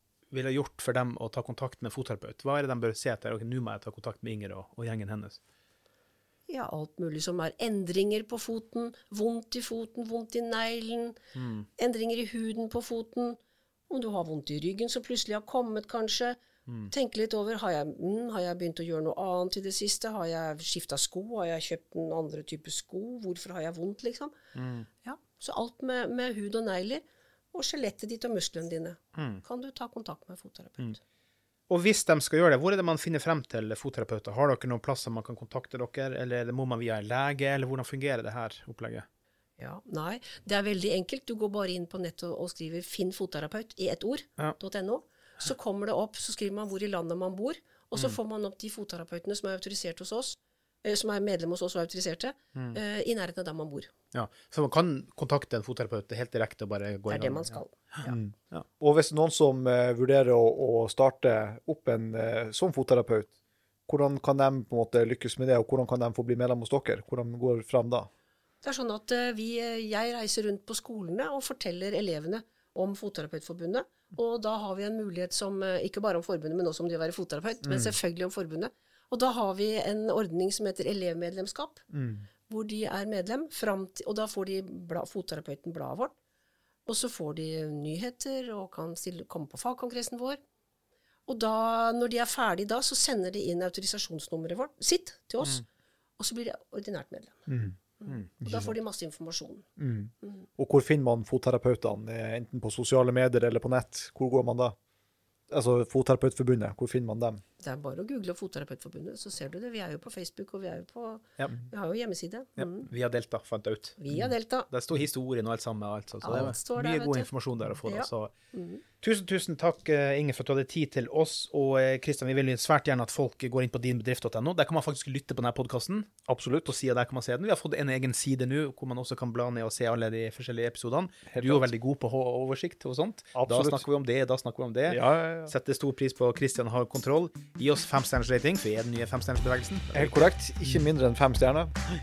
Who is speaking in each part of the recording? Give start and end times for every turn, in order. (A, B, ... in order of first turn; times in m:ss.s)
0:00.3-0:05.4 A
0:06.5-0:11.2 B
0:11.4-0:11.7 A
0:11.8-0:13.4 B
0:13.9-0:16.4 B
0:16.7-0:16.9 A
0:16.9-0:24.4 B
0:24.6-0:24.9 A
0:25.0-0:31.0 B
0:29.2-0:29.4 A
0:31.7-0:39.1 A
0:39.6-0:53.9 B
0:52.5-0:52.8 A
0:54.1-0:58.7 A
0:57.1-0:57.7 B
0:58.0-1:03.3 C
1:03.9-1:08.1 C
1:08.6-1:21.8 B
1:17.6-1:17.9 C
1:21.9-1:22.3 C
1:22.5-1:26.1 B
1:26.9-1:30.4 B
1:31.3-1:35.6 B
1:36.2-1:37.5 B
1:37.5-1:37.8 C
1:38.0-1:39.7 B
1:38.4-1:38.8 C
1:39.8-1:44.8 C
1:45.5-1:47.4 C
1:47.6-1:52.9 B
1:52.6-1:54.0 A
1:54.0-1:54.7 B
1:54.7-1:58.3 A
1:56.2-1:57.3 B
1:57.8-1:58.8 B
1:59.0-2:06.1 A
2:06.3-2:06.8 C
2:06.7-2:20.2 A
2:11.3-2:11.7 C
2:13.4-2:13.8 C
2:14.9-2:15.5 C
2:19.9-2:21.7 C